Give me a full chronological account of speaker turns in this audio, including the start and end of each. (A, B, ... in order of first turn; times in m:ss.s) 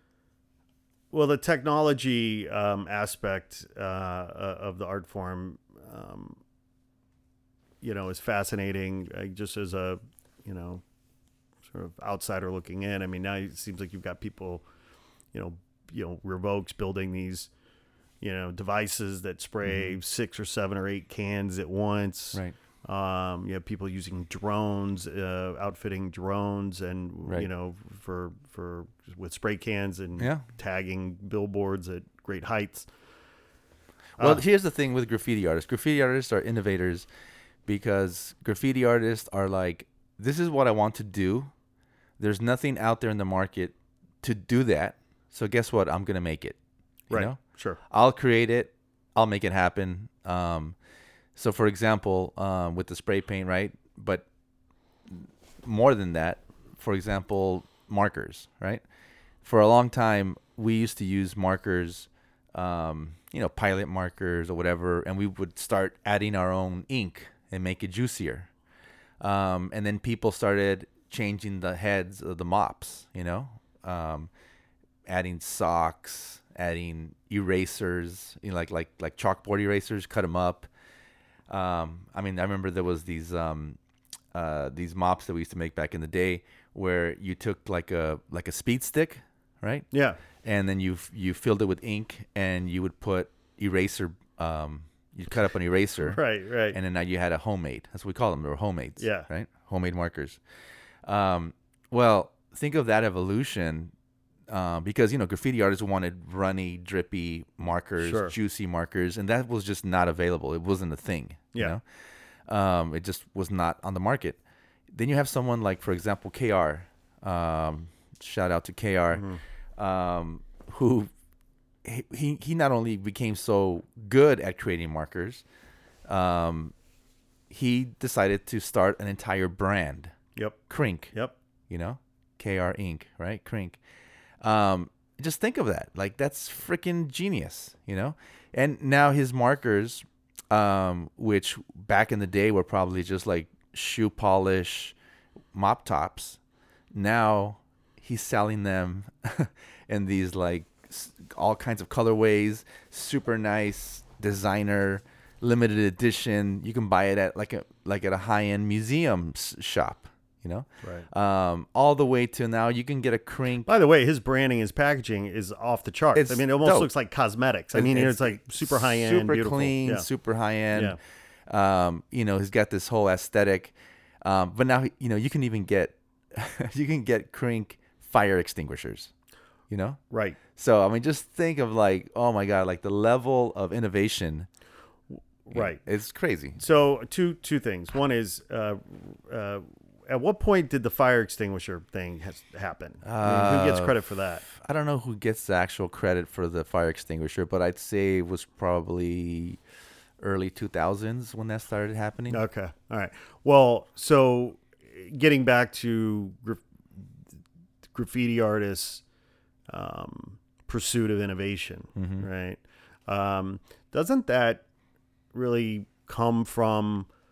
0:01.1-0:06.4 A
0:07.8-0:10.8 A
0:11.7-0:14.6 A
0:15.3-0:17.5 A
0:18.2-0:32.9 A
0:19.6-0:20.0 B
0:30.2-0:30.4 B
0:34.2-0:37.1 B
0:37.6-0:41.5 B
0:42.2-0:46.6 B
0:47.1-0:47.8 A
0:47.1-0:50.8 B
0:51.3-0:54.2 B
0:55.1-0:58.8 B
0:59.4-1:08.5 B
1:09.2-1:14.3 B
1:15.1-1:20.7 B
1:21.5-1:23.8 B
1:24.3-1:36.2 B
1:29.9-1:30.2 A
1:36.1-1:36.8 A
1:36.7-1:40.4 B
1:39.0-1:39.3 A
1:41.0-1:43.9 B
1:44.5-1:51.8 B
1:48.0-1:48.3 A
1:52.4-1:54.4 B
1:54.9-2:01.1 B
1:59.1-1:59.4 A
2:01.8-2:05.4 B
2:06.0-2:06.7 B
2:07.5-2:10.1 B
2:10.7-2:11.1 B
2:11.7-2:13.8 B
2:14.4-2:24.9 B
2:25.5-2:26.4 B
2:26.9-2:43.7 B
2:40.8-2:41.1 A
2:43.6-2:50.1 A
2:46.1-2:46.9 B
2:47.7-2:59.1 B
2:50.7-2:51.0 A
2:59.7-3:00.0 B
3:00.1-3:00.4 A
3:00.5-3:04.5 B
3:05.4-3:05.8 A
3:05.5-3:06.6 B
3:06.6-3:14.4 A
3:13.0-3:19.6 B
3:20.2-3:22.4 B
3:22.3-3:26.6 A
3:27.9-3:29.0 A
3:29.7-3:34.6 A
3:32.0-3:32.2 B
3:35.3-3:37.1 A